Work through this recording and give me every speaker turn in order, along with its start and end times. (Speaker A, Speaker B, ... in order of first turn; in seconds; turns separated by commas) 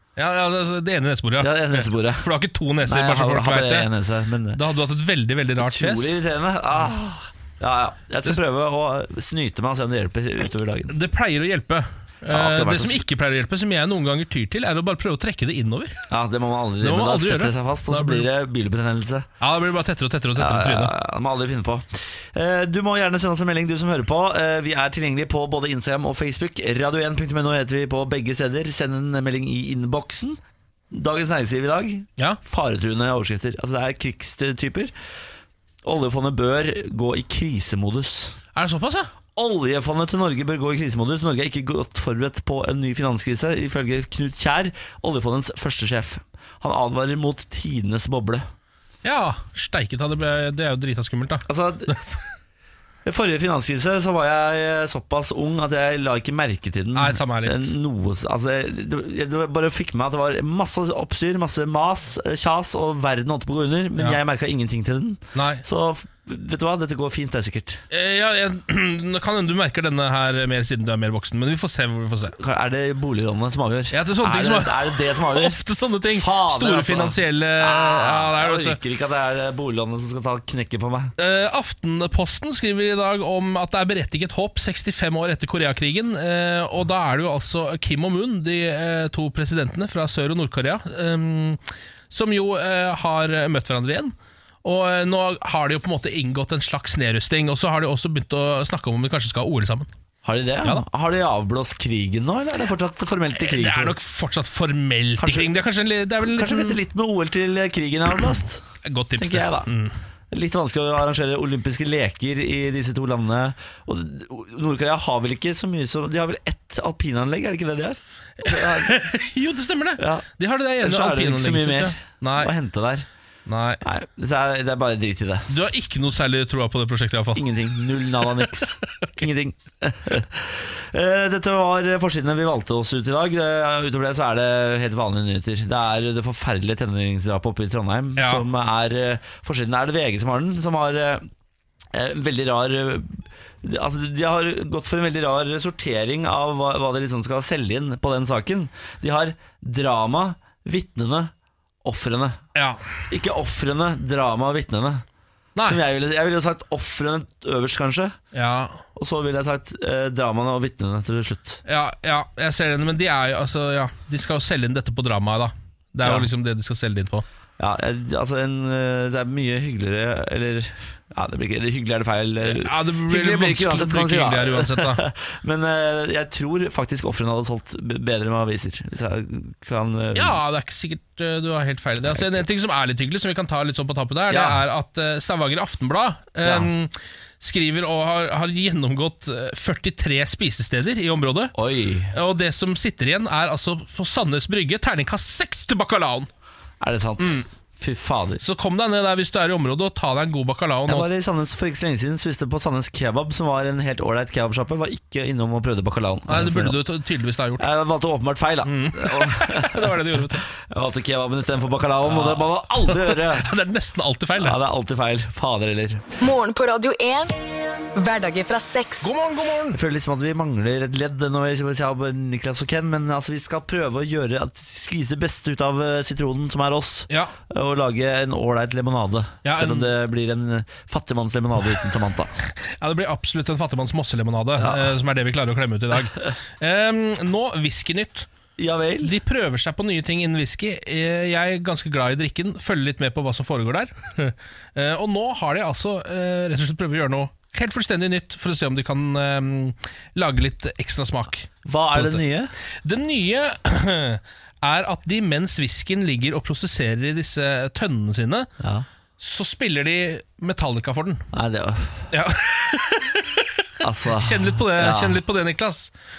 Speaker A: 0.2-3.9, Speaker B: 1.4-2.3, Speaker B: 2.9-4.6, Speaker A: 4.5-6.2, Speaker B: 5.6-10.9, Speaker A: 10.9-16.1, Speaker B: 12.3-13.0, Speaker B: 16.1-19.3, Speaker A: 16.8-18.3, Speaker A: 19.4-20.9, Speaker B: 20.4-30.4, Speaker B: 30.9-34.9, Speaker B: 35.8-38.4, Speaker A: 38.5-39.1, Speaker B: 39.4-48.5, Speaker A: 49.0-52.0, Speaker B: 51.5-52.0, Speaker B: 53.0-67.8, Speaker A: 57.0-57.8, Speaker A: 65.3-65.6, Speaker A: 67.9-72.4, Speaker B: 72.4-75.6, Speaker A: 73.9-78.8, Speaker B: 76.1-81.1, Speaker A: 81.2-99.9, Speaker B: 100.2-104.0, Speaker A: 103.3-106.8, Speaker B: 105.2-105.6, Speaker B: 106.2-108.6, Speaker A: 108.8-110.0, Speaker B: 109.2-109.7, Speaker B: 110.3-119.0, Speaker A: 118.4-122.5, Speaker B: 120.0-120.3, Speaker B: 120.8-123.1, Speaker A: 123.5-123.8, Speaker B: 123.8-125.5, Speaker A: 125.5-128.6, Speaker B: 127.3-141.3, Speaker A: 138.2-138.4, Speaker B: 141.9-151.3, Speaker B: 151.8-152.4, Speaker A: 152.6-152.8, Speaker B: 153.1-155.0, Speaker B: 155.6-158.2, Speaker A: 158.3-158.8, Speaker B: 159.0-161.6, Speaker A: 161.7-167.2, Speaker B: 166.0-166.3, Speaker B: 167.6-180.4, Speaker A: 172.4-175.0, Speaker A: 180.2-191.5, Speaker B: 184.3-184.6, Speaker B: 186.4-186.7, Speaker B: 191.6-192.2, Speaker A: 192.1-196.3, Speaker B: 196.8-198.4, Speaker A: 197.2-197.5, Speaker A: 198.4-201.1, Speaker B: 200.9-206.8, Speaker A: 206.3-207.7, Speaker B: 207.6-213.5, Speaker A: 208.7-210.5, Speaker A: 212.0-214.6, Speaker B: 214.4-216.0, Speaker C: 216.2-217.4, Speaker C: 217.9-219.1, Speaker A: 219.0-219.8, Speaker B: 219.7-232.3, Speaker A: 229.4-229.9, Speaker A: 232.5-238.3, Speaker B: 234.6-234.9, Speaker B: 238.6-239.1, Speaker A: 239.0-252.2, Speaker B: 251.7-252.5, Speaker A: 252.8-258.5, Speaker B: 258.6-258.9, Speaker A: 259.2-261.2, Speaker B: 261.3-262.1, Speaker A: 262.1-265.9, Speaker B: 263.8-265.2